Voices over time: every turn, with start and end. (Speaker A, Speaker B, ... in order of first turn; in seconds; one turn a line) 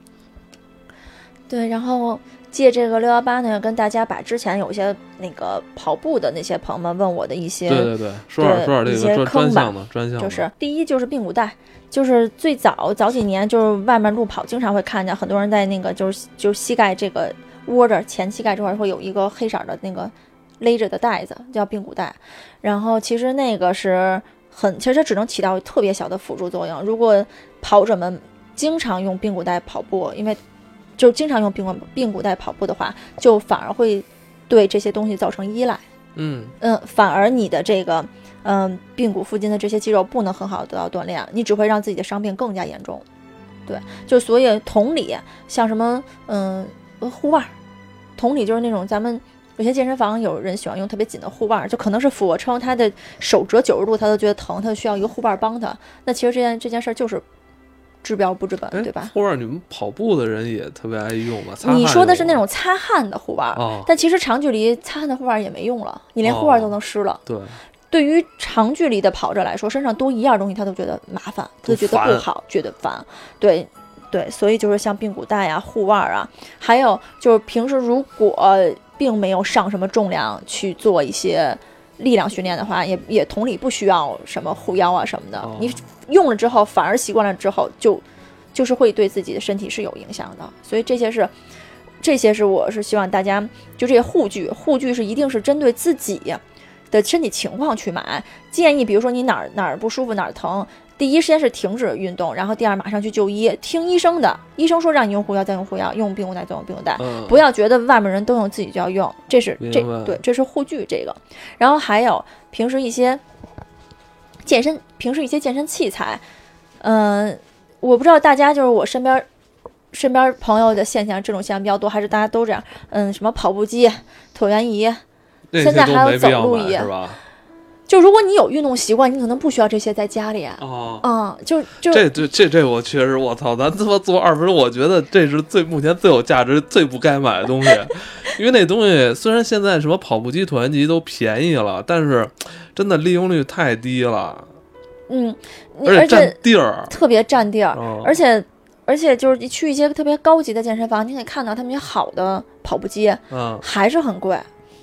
Speaker A: 1.5-30.4
Speaker B: 7.7-10.5
Speaker A: 31.0-35.8
Speaker B: 36.1-36.5
Speaker A: 36.6-43.0
Speaker A: 43.7-47.5
Speaker A: 48.2-57.2
Speaker A: 58.0-59.1
Speaker B: 58.7-62.4
Speaker A: 61.6-67.2
Speaker B: 63.5-63.9
Speaker B: 66.2-67.6
Speaker A: 67.9-91.3
Speaker B: 71.7-72.3
Speaker B: 85.4-85.8
Speaker A: 92.0-113.2
Speaker B: 107.0-107.4
Speaker B: 109.6-110.2
Speaker A: 114.5-116.2
Speaker A: 116.8-119.2
Speaker A: 119.9-125.0
Speaker B: 125.5-127.2
Speaker A: 125.6-126.9
Speaker A: 127.9-132.1
Speaker B: 130.6-131.1
Speaker B: 131.9-144.5
Speaker A: 145.1-154.5
Speaker B: 145.8-146.9
Speaker B: 147.7-148.2
Speaker B: 153.3-153.6